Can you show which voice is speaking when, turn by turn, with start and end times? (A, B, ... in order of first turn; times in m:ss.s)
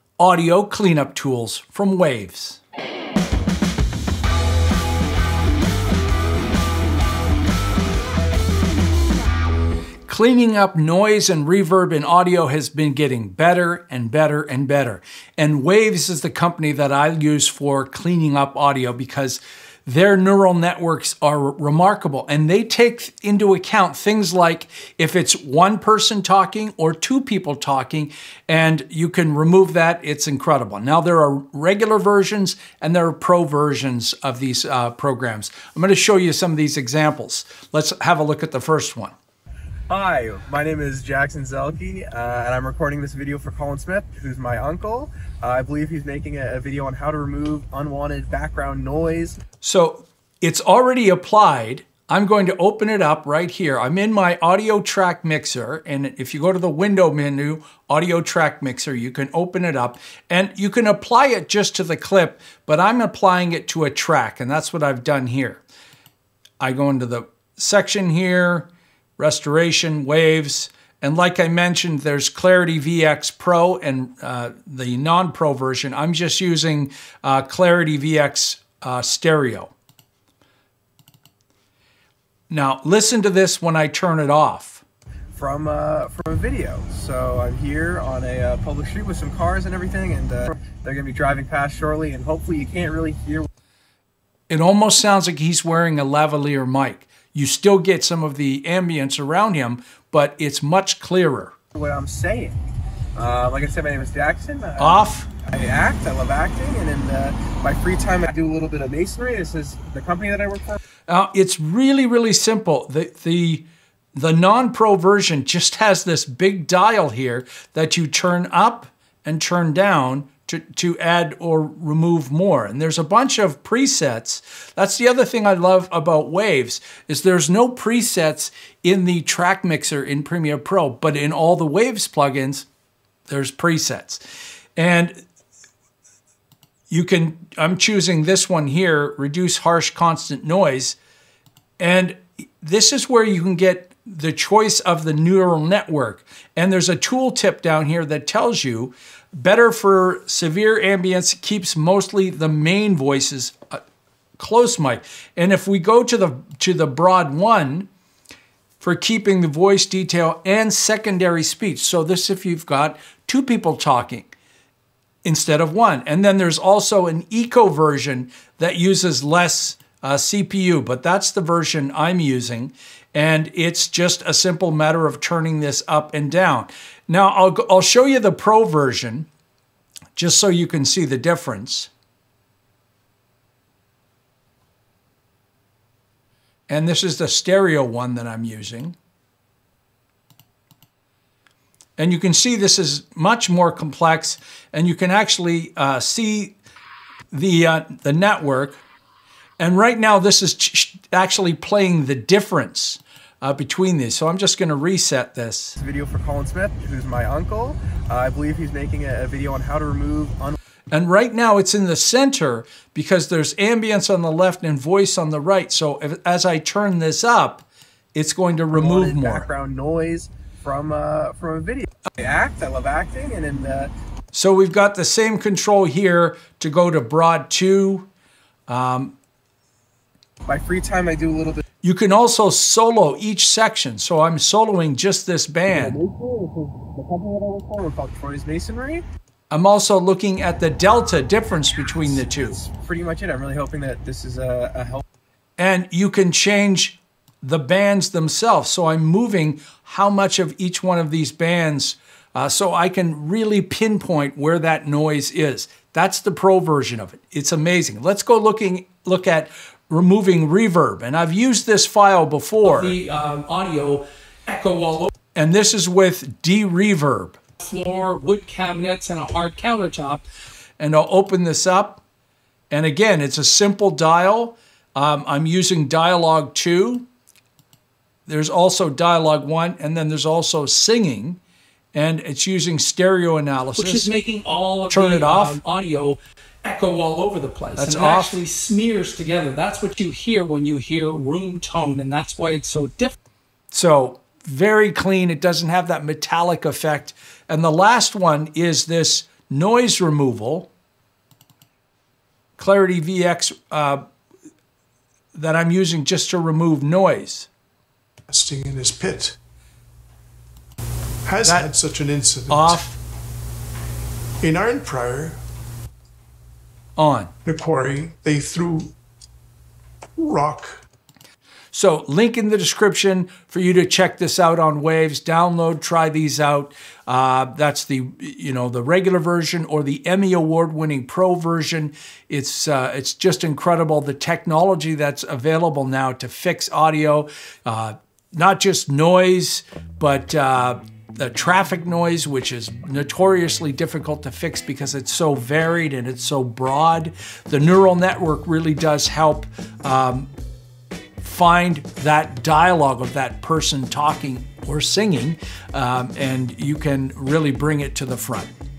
0:00.2-0:02.6 A
0:10.1-0:39.2 A
0:39.9-0:49.4 B
0:49.6-1:05.6 A
1:06.6-1:19.7 A
1:22.5-1:24.8 A
1:25.4-1:33.5 B
1:34.5-1:41.5 A
1:41.8-1:42.6 B
1:43.2-1:50.8 B
1:44.8-1:45.3 A
1:51.1-2:12.7 A
2:13.3-2:14.2 A
2:14.8-2:15.2 A
2:16.9-2:21.0 A
2:21.8-2:33.8 A
2:34.4-2:37.9 A
2:38.8-2:44.3 A
2:45.2-2:59.3 A
3:00.2-3:01.9 A
3:06.7-3:09.0 A
3:12.0-3:16.6 A
3:17.3-3:18.8 A
3:19.6-3:25.8 A
3:25.8-3:30.6 B
3:30.9-3:39.5 A
3:38.7-3:43.9 B
3:44.3-3:48.1 A
3:48.7-3:49.2 A
3:50.5-3:51.6 B
3:51.8-3:56.0 A
3:55.7-3:59.0 B
3:59.5-4:02.6 A
4:02.0-4:05.0 B
4:05.6-4:23.0 A
4:22.6-4:25.1 C
4:25.3-4:27.4 A
4:27.6-4:30.2 C
4:30.8-4:32.0 A
4:32.7-4:37.1 A
4:38.3-4:41.4 A
4:41.9-4:44.1 A
4:43.8-4:53.2 C
4:44.9-4:45.6 A
4:47.8-4:48.4 A
4:53.7-5:00.7 A
5:02.6-5:04.0 A
5:05.3-5:07.5 A
5:08.3-5:09.4 D
5:11.2-5:12.8 D
5:11.4-5:11.7 A
5:12.5-5:13.0 A
5:14.4-5:15.4 D
5:17.0-5:17.3 A
5:17.4-5:18.9 D
5:20.2-5:20.8 D
5:21.7-5:50.3 A
5:51.2-5:58.5 A